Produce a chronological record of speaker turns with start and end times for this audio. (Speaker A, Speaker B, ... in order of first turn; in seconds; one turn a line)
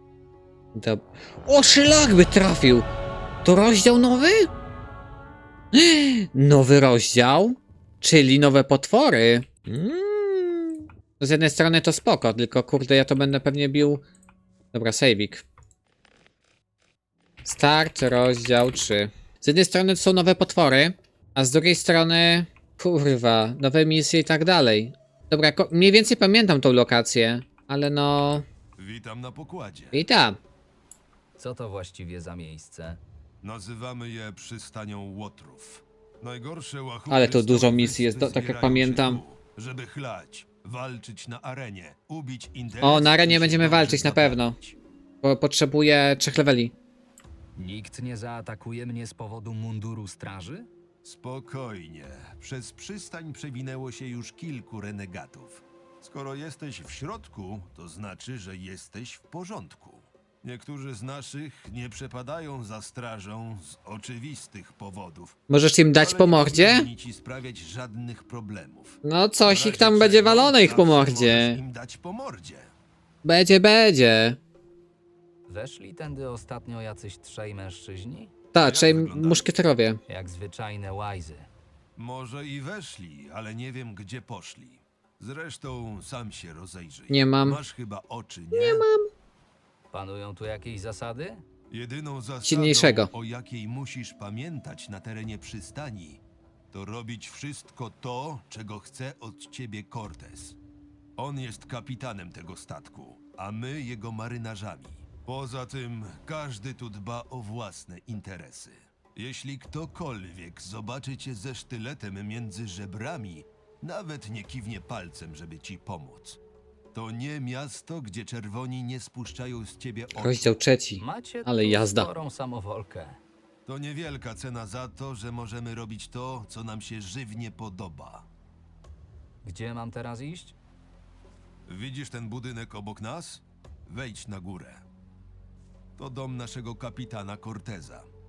Speaker A: 0.7-2.9
Speaker A: 3.4-4.5
Speaker A: 5.7-14.0
Speaker A: 14.7-15.4
Speaker A: 17.4-28.4
Speaker B: 28.8-30.0
Speaker A: 29.9-30.4
Speaker C: 31.4-33.0
Speaker B: 33.4-44.4
Speaker A: 37.1-39.2
Speaker A: 42.8-44.6
Speaker A: 45.2-46.7
Speaker C: 47.5-50.7
Speaker B: 51.0-65.4
Speaker A: 65.5-66.9
Speaker B: 66.0-72.7
Speaker A: 69.0-71.6
Speaker A: 73.2-74.4
Speaker C: 75.5-78.3
Speaker A: 78.5-80.0
Speaker B: 78.6-79.5
Speaker C: 80.1-81.5
Speaker B: 82.0-88.8
Speaker A: 87.1-87.6
Speaker A: 88.5-89.1
Speaker C: 89.9-91.4
Speaker B: 91.7-96.2
Speaker A: 92.4-93.1
Speaker B: 96.7-100.6
Speaker B: 101.2-116.4
Speaker B: 116.9-120.6
Speaker A: 120.2-122.1
Speaker C: 121.0-123.2
Speaker B: 123.7-128.3
Speaker C: 129.4-130.6
Speaker B: 131.7-134.8
Speaker B: 136.0-138.1